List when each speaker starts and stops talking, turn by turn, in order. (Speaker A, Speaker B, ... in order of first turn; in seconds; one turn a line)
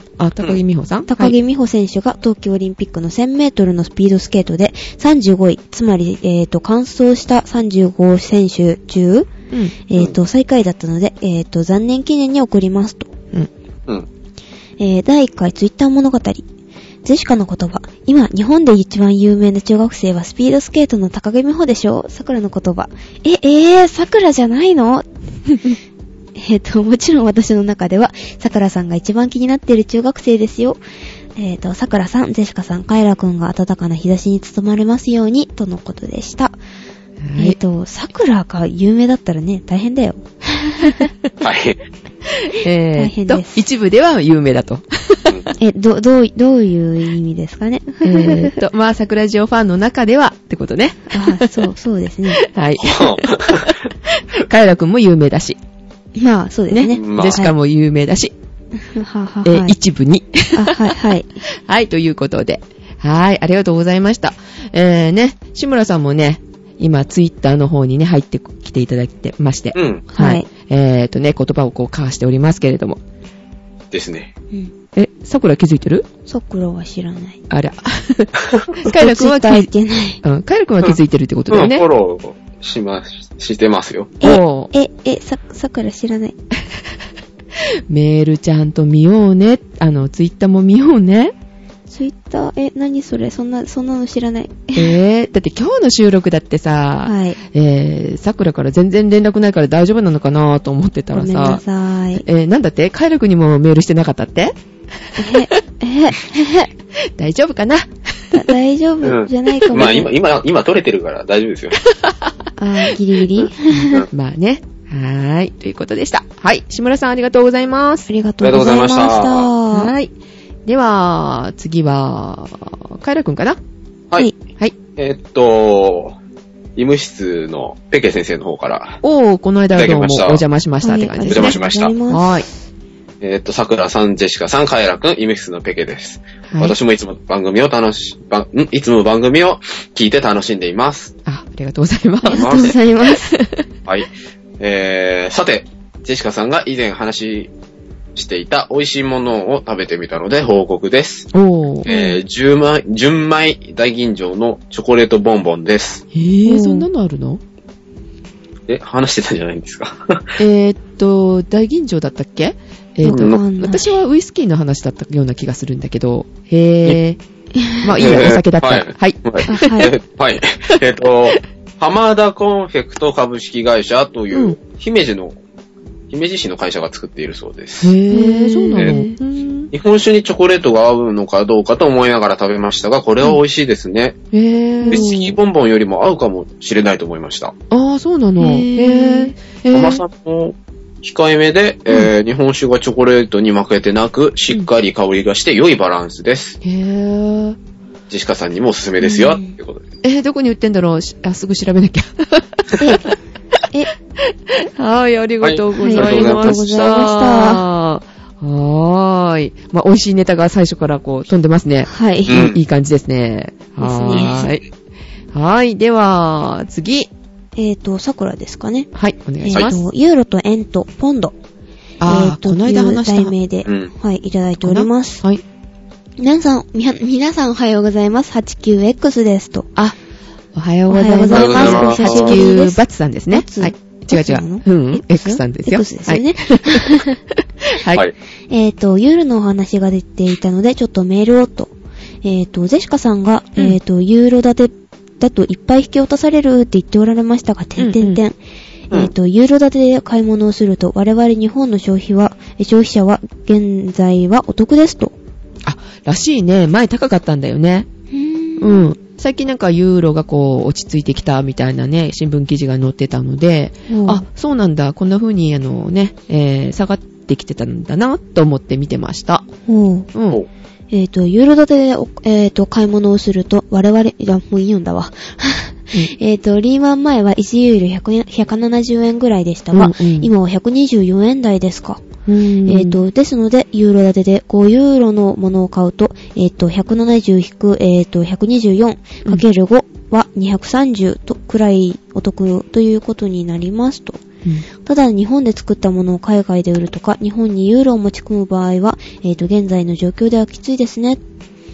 Speaker A: 0.2-1.4
Speaker B: 1.1-9.3
Speaker B: 9.9-13.1
Speaker B: 14.8-16.4
Speaker B: 17.0-25.1
Speaker B: 26.4-30.8
Speaker B: 31.4-36.6
Speaker A: 37.2-37.6
Speaker B: 37.4-41.1
Speaker C: 41.4-41.8
Speaker A: 42.4-45.5
Speaker B: 43.0-43.6
Speaker B: 45.6-48.6
Speaker A: 48.0-51.7
Speaker B: 51.1-52.4
Speaker A: 52.4-55.6
Speaker C: 52.8-53.8
Speaker B: 56.2-57.5
Speaker A: 56.7-58.3
Speaker C: 56.9-57.4
Speaker B: 58.8-59.8
Speaker A: 59.4-61.0
Speaker B: 60.5-61.4
Speaker A: 61.5-73.0
Speaker C: 69.7-70.0
Speaker B: 70.1-70.5
Speaker C: 73.9-74.3
Speaker A: 74.9-76.0
Speaker B: 76.3-77.4
Speaker A: 77.5-79.7
Speaker B: 78.9-80.2
Speaker A: 80.2-81.8
Speaker C: 81.5-84.4
Speaker B: 84.2-86.3
Speaker A: 84.2-84.7
Speaker A: 87.9-91.3
Speaker B: 91.9-95.0
Speaker A: 94.8-101.6
Speaker B: 97.0-97.4
Speaker B: 101.1-102.2
Speaker A: 102.2-104.5
Speaker B: 105.2-106.7
Speaker A: 107.0-108.5
Speaker B: 108.3-110.1
Speaker C: 109.0-111.8
Speaker A: 112.0-112.3
Speaker B: 112.6-114.1
Speaker A: 114.1-118.1
Speaker B: 118.1-119.9
Speaker C: 118.4-119.5
Speaker A: 119.7-120.1
Speaker A: 120.7-123.6
Speaker C: 125.0-126.2
Speaker C: 126.8-129.0
Speaker A: 129.0-131.6
Speaker C: 129.7-130.4
Speaker B: 130.8-132.5
Speaker C: 131.3-131.9
Speaker A: 132.1-132.5
Speaker C: 133.2-141.1
Speaker A: 136.5-136.8
Speaker A: 141.2-142.5
Speaker B: 142.2-143.3
Speaker C: 142.3-142.8
Speaker A: 143.3-143.6
Speaker C: 144.6-147.5
Speaker C: 148.1-151.3
Speaker A: 151.3-151.9
Speaker C: 151.8-156.0
Speaker B: 151.9-152.2
Speaker A: 156.1-157.4
Speaker B: 156.4-156.9
Speaker C: 158.7-160.4
Speaker A: 160.4-167.2
Speaker B: 163.0-164.0
Speaker C: 163.1-163.4
Speaker B: 167.6-167.9
Speaker A: 167.8-169.8
Speaker C: 168.0-175.3
Speaker B: 169.4-169.9
Speaker A: 174.3-174.6
Speaker C: 176.1-177.9
Speaker A: 177.8-179.7
Speaker B: 178.1-179.2
Speaker C: 179.7-184.2
Speaker A: 184.3-185.0
Speaker B: 184.8-185.4
Speaker C: 184.8-187.5
Speaker A: 187.7-190.0
Speaker B: 188.4-189.3
Speaker C: 189.7-196.6
Speaker A: 196.6-197.6
Speaker C: 198.1-199.8
Speaker B: 199.0-199.5
Speaker A: 200.0-203.1
Speaker B: 202.8-203.1
Speaker A: 204.3-214.6
Speaker C: 205.4-206.6
Speaker B: 205.7-207.7
Speaker B: 211.8-212.5
Speaker C: 212.3-212.6
Speaker B: 213.8-214.5
Speaker C: 214.1-214.4
Speaker A: 215.3-217.1
Speaker B: 217.6-218.9
Speaker A: 218.9-219.8
Speaker B: 219.4-221.3
Speaker A: 222.0-223.3
Speaker B: 222.1-225.2
Speaker C: 223.7-223.9
Speaker A: 224.6-225.4
Speaker B: 226.2-229.7
Speaker A: 230.5-237.0
Speaker B: 230.9-237.2
Speaker C: 231.3-232.5
Speaker A: 237.7-238.0
Speaker B: 238.5-248.4
Speaker A: 247.8-248.2
Speaker B: 248.9-255.1
Speaker A: 255.6-257.9
Speaker B: 258.1-258.9
Speaker A: 258.6-269.5
Speaker B: 263.9-264.2
Speaker B: 269.7-270.1
Speaker A: 270.1-270.4
Speaker B: 270.9-282.0
Speaker A: 279.7-280.3
Speaker A: 282.2-283.0
Speaker B: 282.6-294.2
Speaker B: 294.8-301.2